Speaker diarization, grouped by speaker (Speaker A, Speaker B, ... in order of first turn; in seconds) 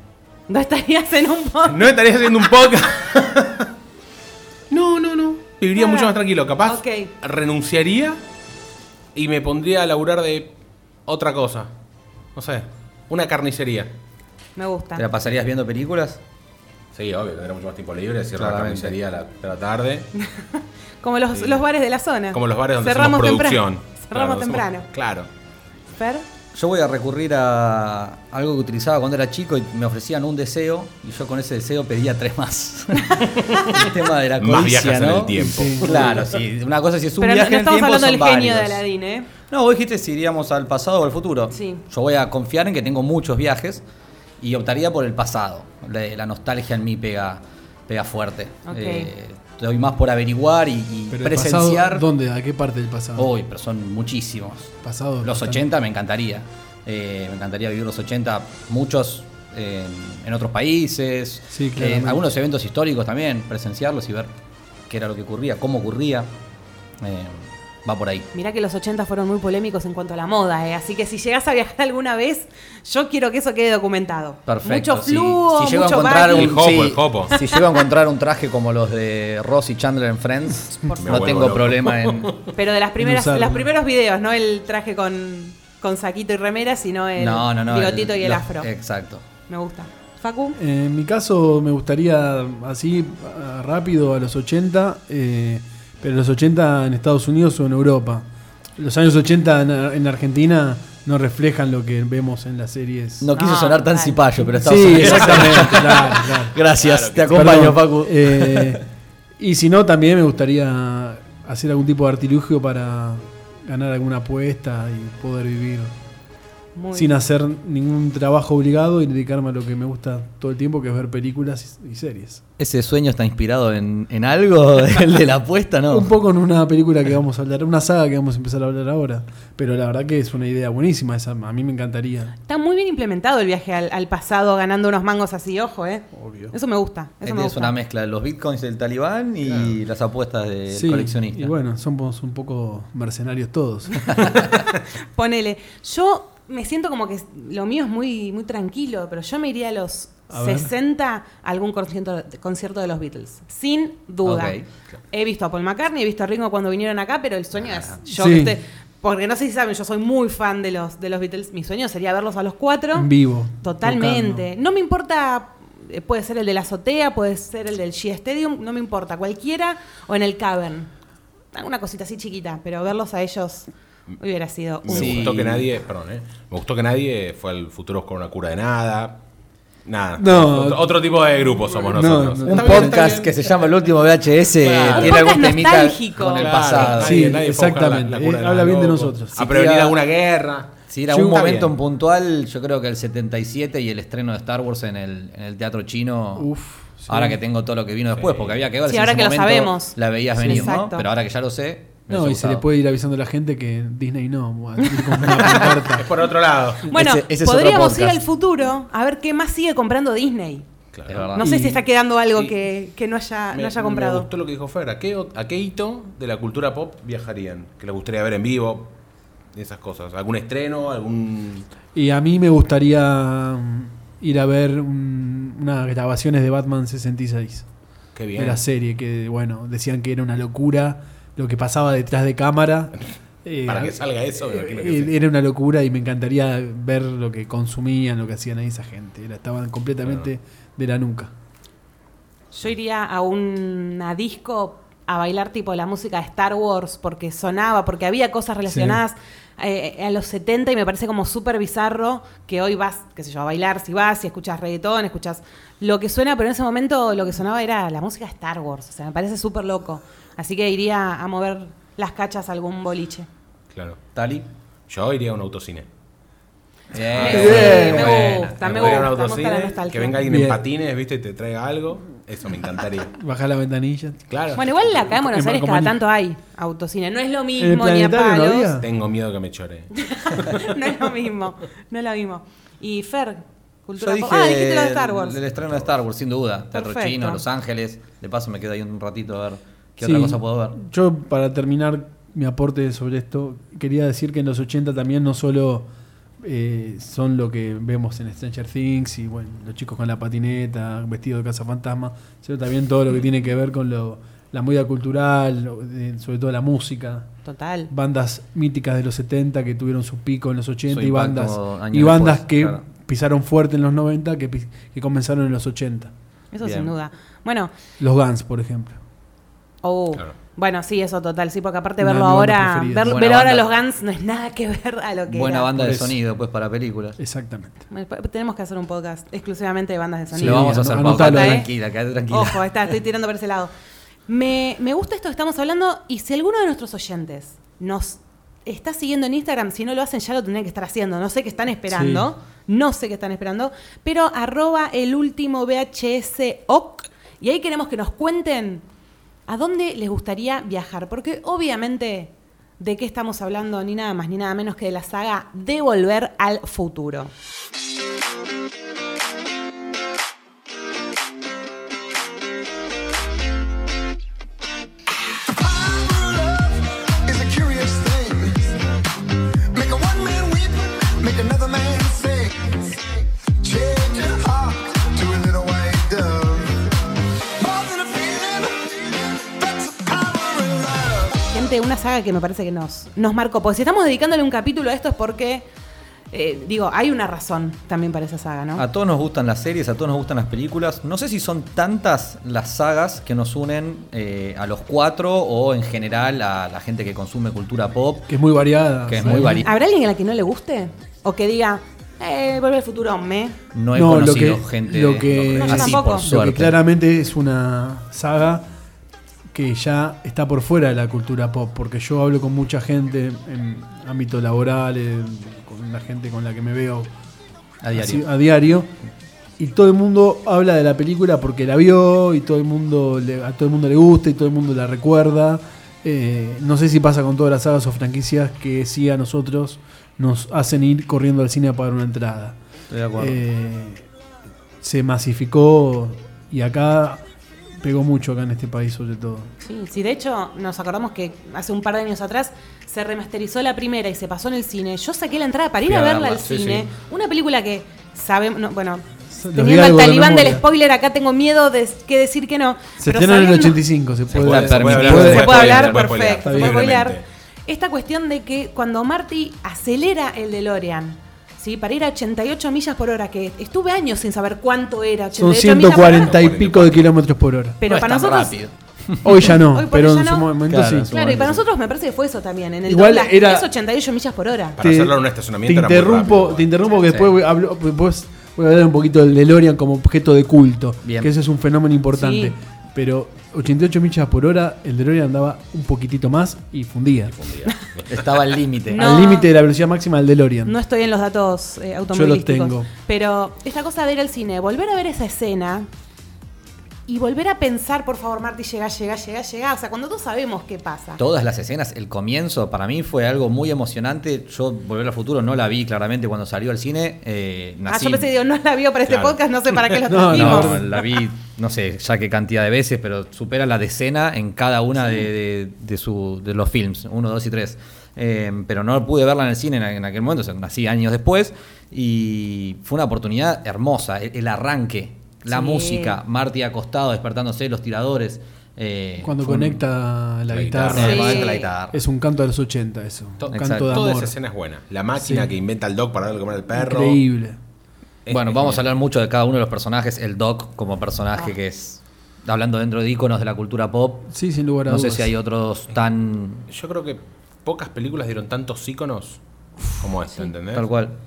Speaker A: 0.5-1.9, 5.7-6.1, 6.6-7.1, 14.6-15.0, 20.2-24.9, 26.0-26.2, 37.2-39.3, 41.5-41.8, 48.6-49.1, 68.3-76.5, 77.3-77.7, 82.5-88.7, 89.5-90.6, 103.3-104.5, 116.7-117.2, 132.5-137.7, 144.4-154.6, 155.1-163.1, 163.6-170.9, 171.5-173.7, 174.2-175.2, 184.9-186.5, 198.8-201.1, 206.8-210.6, 211.3-214.3, 242.5-263.3, 267.2-270.2, 274.5-278.7, 279.9-285.4, 286.7-287.4, 307.4-307.9, 316.5-317.7, 319.8-325.7, 327.9-331.7, 332.3-333.7, 334.3-348.8, 349.5-357.3, 381.5-385.6, 386.3-388.8, 399.6-403.6, 405.6-406.2, 439.6-453.8, 455.0-466.3, 467.8-468.6, 469.5-470.6, 471.1-474.8, 482.1-482.5, 488.9-489.5, 490.6-495.9, 497.1-501.2, 507.9-511.0, 525.5-526.2, 530.9-531.7
Speaker B: 1.7-3.7, 4.7-8.2, 9.1-10.5, 11.1-11.7, 12.3-13.9, 16.9-20.1, 21.3-21.6, 22.3-25.3, 33.2-36.2, 76.3-77.3, 80.9-82.5, 105.0-106.1, 106.8-107.7, 139.4-139.8, 174.8-179.2, 179.8-183.6, 184.6-185.2, 186.3-191.7, 198.2-198.6, 205.4-206.8, 210.9-211.4, 213.5-218.9, 219.5-221.7, 228.1-228.6, 233.6-235.1, 263.7-264.0, 264.9-265.9, 267.1-273.1, 274.3-274.8, 278.8-280.7, 285.5-285.9, 446.4-446.9, 454.4-457.2, 465.8-467.1, 474.8-476.6, 487.3-488.3, 509.1-509.4, 530.5-531.4, 533.4-537.2, 538.2-538.8, 546.7-550.9
Speaker C: 14.9-16.2, 18.4-19.0, 26.5-38.8, 39.5-43.8, 44.4-52.1, 53.1-64.3, 64.9-66.3, 67.0-68.3, 74.5-82.4, 87.2-89.2, 103.2-108.8, 122.6-126.1, 137.2-141.5, 144.1-144.5, 154.2-154.6, 157.7-157.9, 174.9-175.7, 182.4-187.4, 189.4-190.0, 190.9-196.5, 197.1-202.6, 206.9-208.2, 211.1-211.5, 264.1-264.4, 266.9-269.1, 284.0-290.8, 310.9-312.8, 316.6-316.9, 323.1-323.6, 325.3-327.2, 330.4-332.7, 388.8-398.3, 399.1-399.7, 403.7-406.8, 417.8-418.2, 432.9-433.4, 445.9-446.4, 454.3-456.1, 467.8-469.5, 470.7-471.6, 477.1-477.3, 481.0-481.3, 488.1-489.1, 501.2-508.2, 510.3-529.8, 530.9-532.0, 533.5-534.0, 538.3-544.3, 544.9-546.6, 550.7-551.1
Speaker D: 35.3-36.3, 51.1-53.3, 54.8-55.6, 61.5-62.2, 83.0-83.7, 90.5-103.3, 104.5-106.5, 107.3-108.8, 109.4-115.9, 116.9-122.4, 125.9-132.3, 136.1-136.5, 140.7-144.2, 150.3-150.7, 158.1-158.6, 162.9-164.4, 180.2-181.2, 181.7-183.2, 186.8-189.5, 191.1-191.5, 196.3-197.4, 200.3-200.7, 202.1-206.1, 211.4-211.8, 221.9-227.7, 228.3-232.9, 233.4-241.3, 248.7-249.0, 267.3-268.3, 270.2-270.6, 273.1-274.2, 275.1-276.0, 277.6-278.9, 290.0-295.9, 296.4-307.3, 307.9-316.1, 318.0-319.0, 322.0-323.2, 325.7-326.2, 327.2-327.8, 330.3-331.7, 341.9-342.3, 398.3-399.7, 403.9-408.6, 409.5-417.1, 417.9-418.9, 419.6-432.6, 433.1-434.1, 434.8-437.2, 437.8-439.5, 449.3-450.6, 453.0-455.6, 456.4-457.0, 465.3-467.8, 469.2-471.1, 472.9-473.7, 474.8-487.3, 488.9-490.7, 492.1-492.9, 510.1-510.9, 529.2-534.3, 535.1-535.5, 536.7-537.6, 544.3-545.3
Speaker E: 365.5-368.7, 369.7-381.6